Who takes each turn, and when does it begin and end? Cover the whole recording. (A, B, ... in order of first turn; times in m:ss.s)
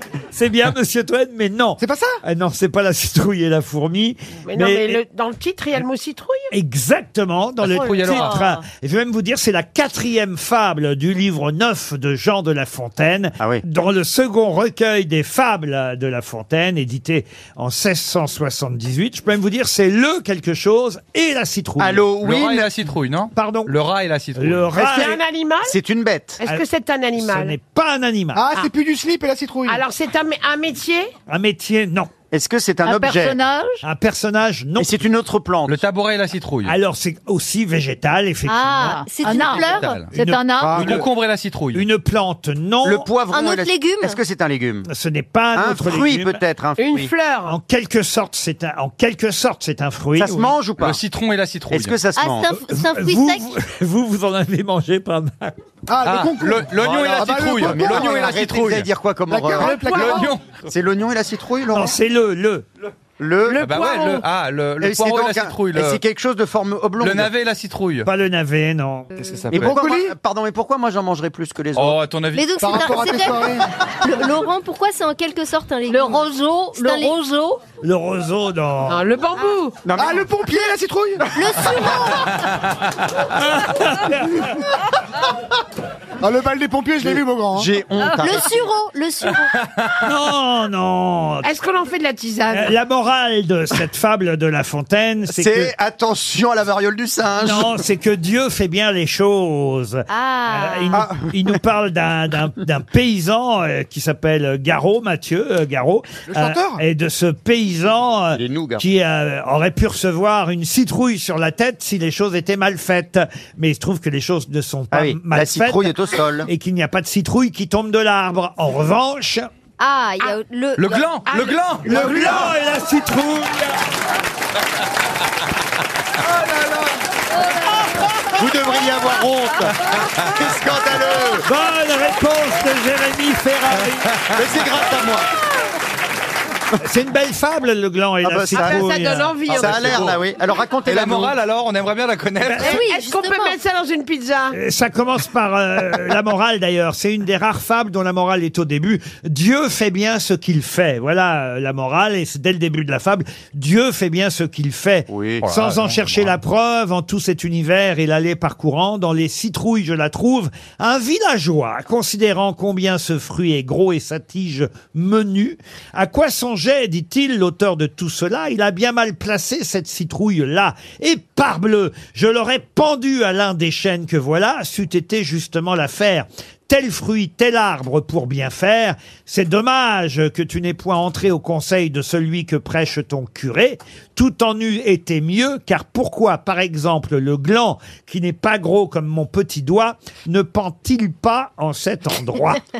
0:00.3-0:05.0 A
0:01.8-0:02.2 B
0:04.4-0:06.5 C
0:06.5-0:22.0 A
0:07.6-0:08.5 D
0:08.0-0:08.6 E
0:21.8-0:22.7 F
0:22.2-0:24.8 D
0:23.3-0:23.7 A
0:24.4-0:25.2 A
0:24.7-0:25.8 C
0:25.6-0:26.4 F
0:26.4-0:27.6 C
0:27.2-0:28.4 A
0:28.3-0:29.8 B
0:29.6-0:31.1 C
0:31.3-0:32.1 A
0:32.3-0:33.4 F
0:32.8-0:33.8 E
0:33.8-0:35.0 A
0:34.8-0:35.8 F
0:35.7-0:36.7 D
0:36.6-0:39.0 A
0:38.5-0:40.1 G
0:38.8-0:40.9 E
0:39.4-0:40.1 D
0:40.1-0:41.0 A
0:40.6-0:41.0 F
0:40.7-0:41.8 D
0:41.7-0:43.0 A
0:42.8-0:44.9 F
0:43.3-0:44.2 G
0:44.9-0:46.4 A
0:45.5-0:47.1 F
0:46.8-0:47.6 C
0:47.4-0:50.5 A
0:50.2-0:51.0 F
0:50.8-0:52.0 D
0:51.7-0:52.5 F
0:52.2-0:53.5 G
0:52.7-0:55.5 A
0:55.9-0:58.3 B
0:56.0-0:58.9 D
0:56.8-1:02.0 F
0:59.3-1:00.3 B
0:59.6-1:00.6 D
1:01.7-1:02.6 A
1:03.2-1:03.7 F
1:03.5-1:04.2 C
1:03.6-1:06.0 D
1:04.8-1:07.3 F
1:07.0-1:08.1 D
1:08.0-1:09.1 A
1:09.1-1:09.4 G
1:09.2-1:09.7 D
1:09.5-1:10.1 B
1:09.5-1:12.0 F
1:11.8-1:12.5 D
1:12.3-1:17.2 G
1:12.6-1:13.7 B
1:15.9-1:17.6 E
1:17.8-1:19.0 A
1:18.9-1:19.8 C
1:19.8-1:20.3 F
1:19.9-1:21.3 B
1:21.3-1:22.4 G
1:23.4-1:24.4 A
1:26.2-1:27.7 B
1:27.0-1:28.6 F
1:28.1-1:29.5 G
1:29.5-1:29.9 D
1:30.0-1:31.5 A
1:31.4-1:32.7 C
1:32.5-1:35.7 A
1:35.3-1:37.8 F
1:37.4-1:55.9 A
1:40.1-1:41.1 G
1:40.9-1:41.3 F
1:46.3-1:46.8 B
1:48.4-1:48.8 F
1:54.9-1:56.5 F
1:56.4-1:59.5 A
1:59.8-2:01.0 G
2:00.8-2:02.4 D
2:01.2-2:02.5 C
2:01.8-2:03.8 A
2:06.3-2:06.8 B
2:08.3-2:11.4 F
2:11.4-2:14.1 A
2:14.3-2:15.3 F
2:16.8-2:19.9 A
2:18.2-2:18.8 F
2:18.5-2:20.1 C
2:19.5-2:20.1 D
2:19.5-2:21.4 F
2:20.8-2:22.8 D
2:22.4-2:22.7 A
2:22.6-2:23.6 G
2:22.6-2:24.6 C
2:24.5-3:12.6 A
2:35.1-2:35.4 F
2:35.4-2:36.4 D